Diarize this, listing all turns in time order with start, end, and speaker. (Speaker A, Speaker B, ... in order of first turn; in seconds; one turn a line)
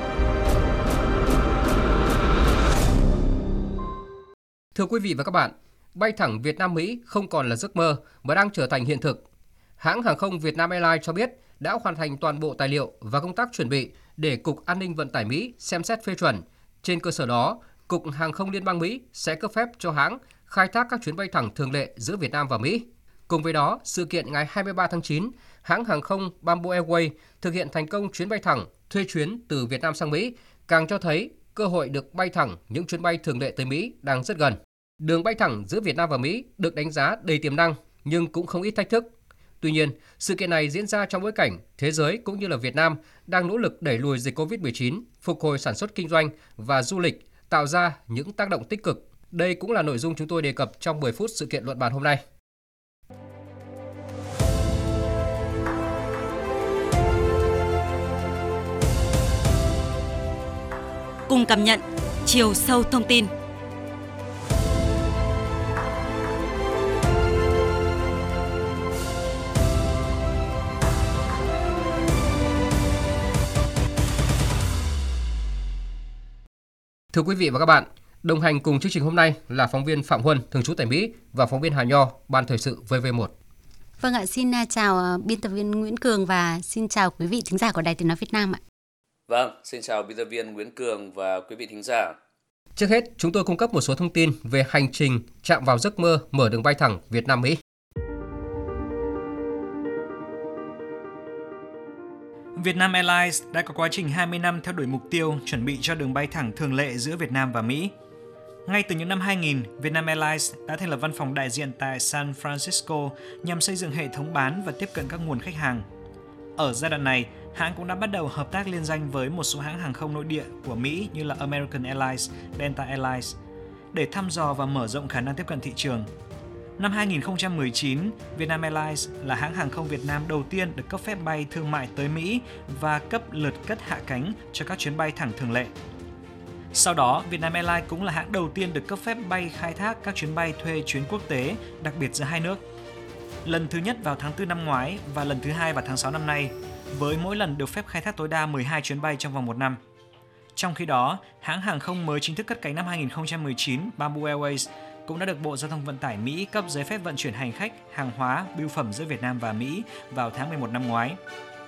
Speaker A: 4.7-9.2
Speaker A: 9.8-39.1
Speaker A: 39.6-52.2
Speaker B: 61.3-63.3
Speaker A: 77.1-83.3
Speaker C: 84.0-88.6
Speaker D: 89.3-92.2
Speaker A: 92.8-97.6
Speaker E: 102.6-107.9
Speaker E: 108.7-115.8
Speaker E: 116.6-123.3
Speaker E: 123.9-126.1
Speaker E: 126.8-135.7
Speaker E: 136.7-142.6
Speaker E: 143.4-149.8
Speaker E: 150.5-161.2